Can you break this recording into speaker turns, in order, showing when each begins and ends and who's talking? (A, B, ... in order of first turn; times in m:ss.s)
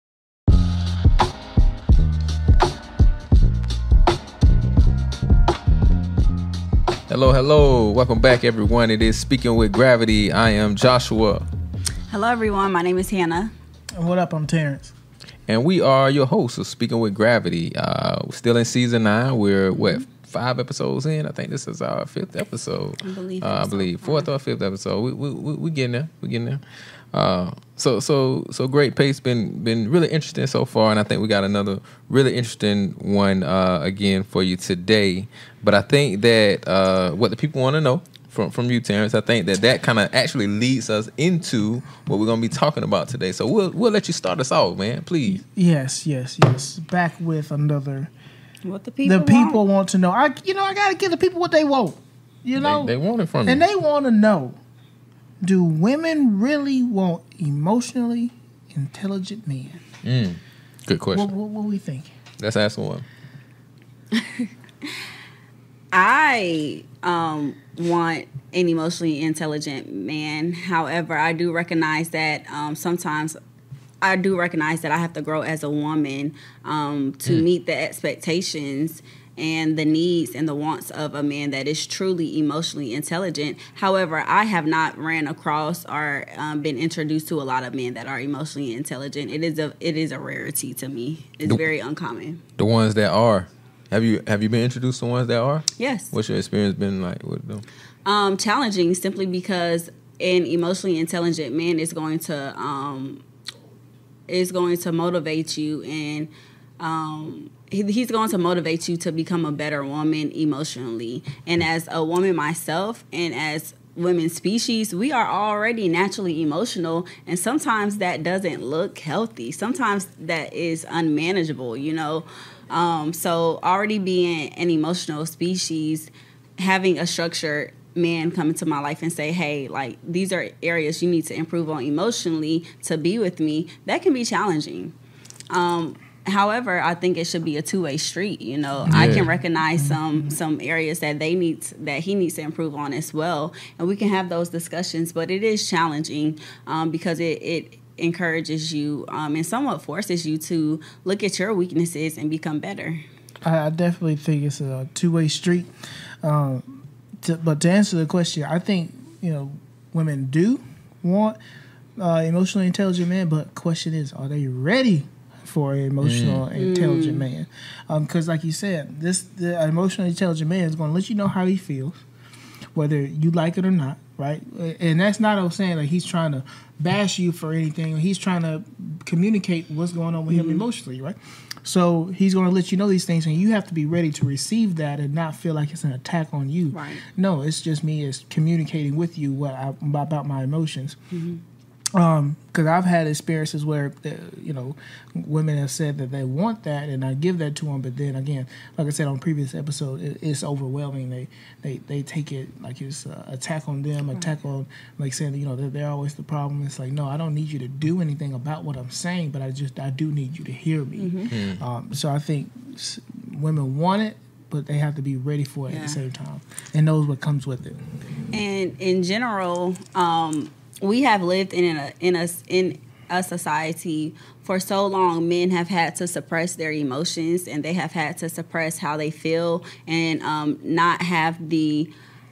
0:07.1-0:11.5 A
0:12.1-0:13.5 B
0:14.0-0:14.9 C
0:15.5-0:26.6 A
0:19.7-0:20.0 B
0:23.0-0:24.3 B
0:27.1-0:45.4 A
0:45.3-0:48.1 C
0:48.6-0:49.6 B
0:49.0-0:54.6 C
0:52.6-0:53.6 A
0:55.4-0:59.8 C
1:00.0-1:01.3 A
1:01.1-1:02.1 C
1:02.4-1:03.0 A
1:04.1-1:04.9 B
1:05.9-1:13.4 B
1:14.0-1:32.4 B
1:32.6-1:37.6 A
1:35.8-1:36.1 B
1:38.0-1:43.2 B
1:44.3-2:14.9 B
2:15.5-2:33.0 B
2:18.9-2:20.3 C
2:18.9-2:19.3 A
2:33.4-2:35.7 C
2:36.2-2:41.4 C
2:42.0-2:52.0 C
2:46.0-2:46.4 A
2:46.6-2:47.2 B
2:52.7-3:11.0 C
3:00.3-3:00.6 B
3:06.7-3:07.0 B
3:11.1-3:11.4 B
3:11.9-3:37.8 C
3:31.0-3:31.3 B
3:31.3-3:31.6 A
3:35.7-3:36.0 B
3:38.3-3:51.9 B